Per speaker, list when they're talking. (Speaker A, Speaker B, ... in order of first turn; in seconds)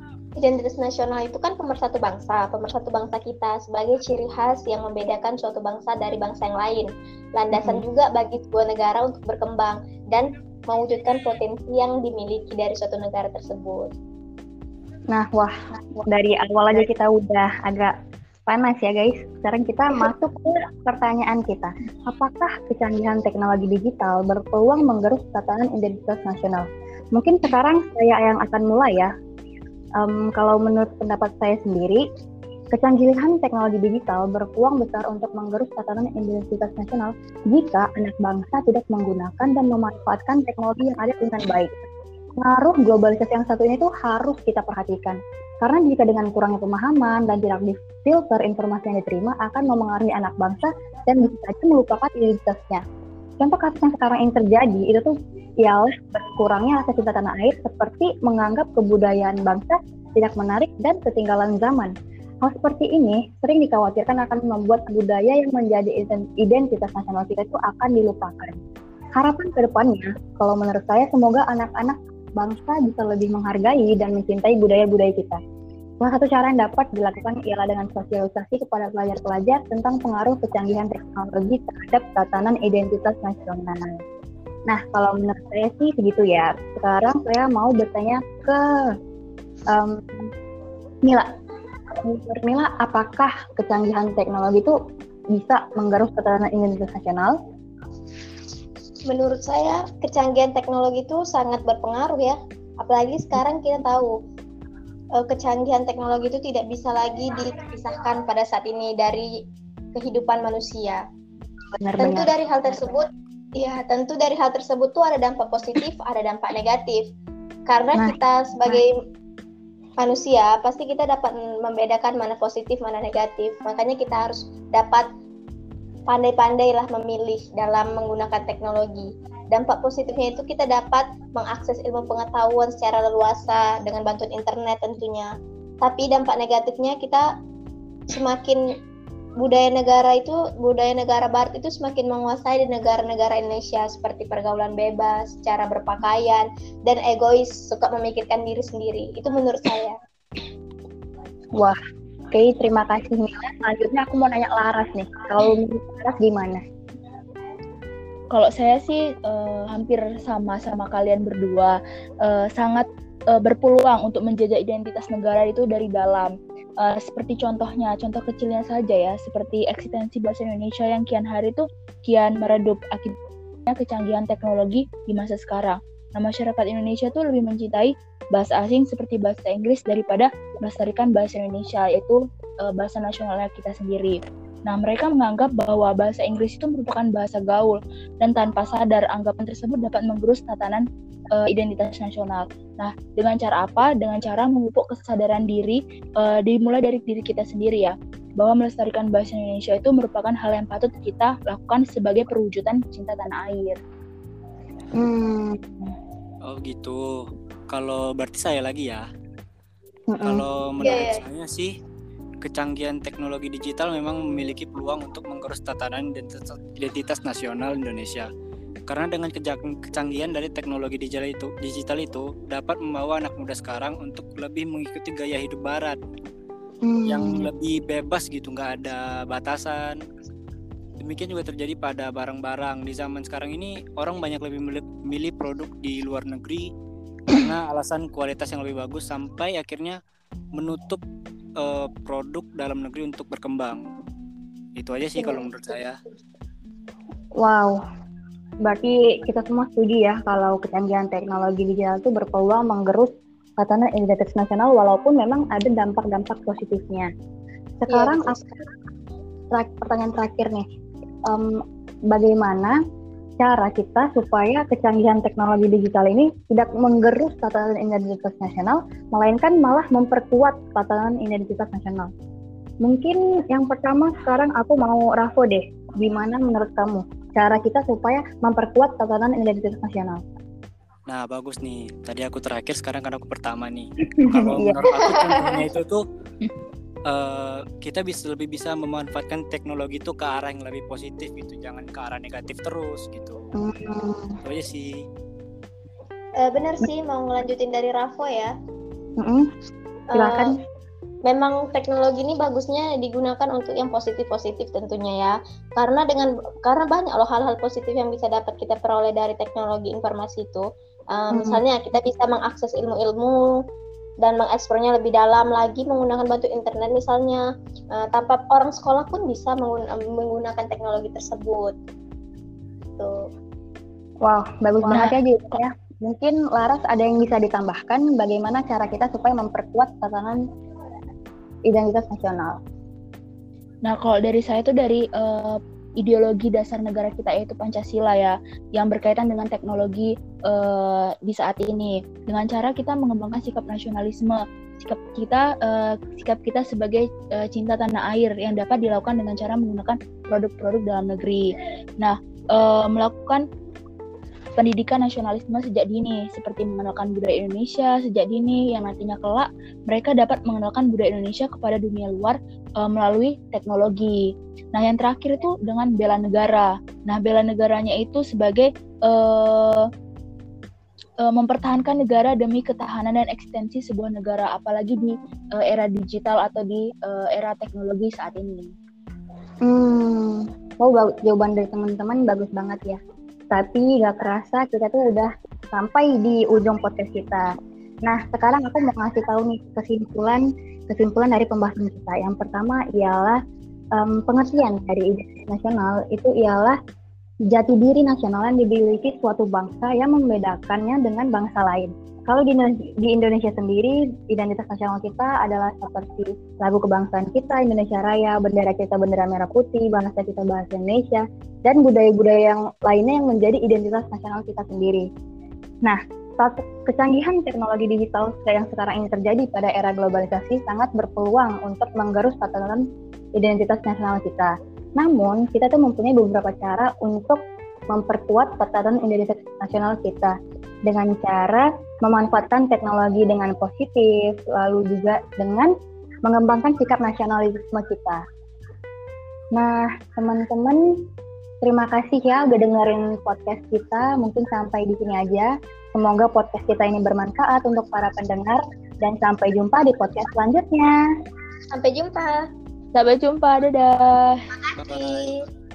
Speaker A: 0.4-13.9, 99.1-104.1, 105.2-109.2, 109.9-111.0, 112.0-113.0, 113.6-117.0, 117.7-118.9, 120.0-125.0, 126.1-135.3, 135.8-137.2, 138.1-138.6, 139.4-149.9, 210.8-211.2, 257.9-258.4, 284.9-285.6, 296.4-298.5, 300.1-300.5, 301.3-310.6, 311.1-313.3, 314.2-317.4, 317.9-321.7, 451.8-452.3, 454.8-455.3
Speaker B: 7.5-7.8, 15.1-17.9, 18.5-29.1, 30.0-32.0, 32.7-41.8, 42.4-52.8, 53.4-61.9, 62.4-68.6, 69.2-75.4, 76.0-84.0, 84.7-88.6, 89.7-90.3, 92.0-94.7, 95.3-97.3, 111.8-112.3, 118.0-118.8, 152.3-156.6, 205.0-205.9, 210.1-210.4, 226.8-227.4, 247.4-247.8, 248.6-257.1, 257.8-258.6, 259.5-260.6, 261.3-261.6, 262.1-262.8, 263.4-272.1, 272.8-280.2, 284.2-284.8, 293.6-294.4, 299.2-299.5, 300.1-300.5, 311.3-311.6, 324.2-330.4, 331.7-332.6, 379.6-383.0, 383.5-387.5, 388.0-393.4, 393.9-396.8, 397.5-415.0, 415.8-422.8, 423.4-427.4, 427.9-430.3, 430.8-435.7, 436.2-438.2, 439.5-440.8, 441.6-450.9
Speaker C: 158.3-173.2, 173.7-203.8, 324.9-325.1, 333.8-351.4, 352.0-353.4, 354.6-364.1, 364.7-369.8, 371.2-378.7, 452.9-454.4
Speaker D: 206.4-207.0, 207.7-209.0, 210.2-211.7, 212.4-218.3, 218.9-226.0, 227.1-230.0, 231.0-236.7, 237.3-240.0, 240.6-241.0, 241.6-243.8, 244.8-246.0, 281.1-286.0, 287.1-293.4, 294.4-294.9, 454.8-455.3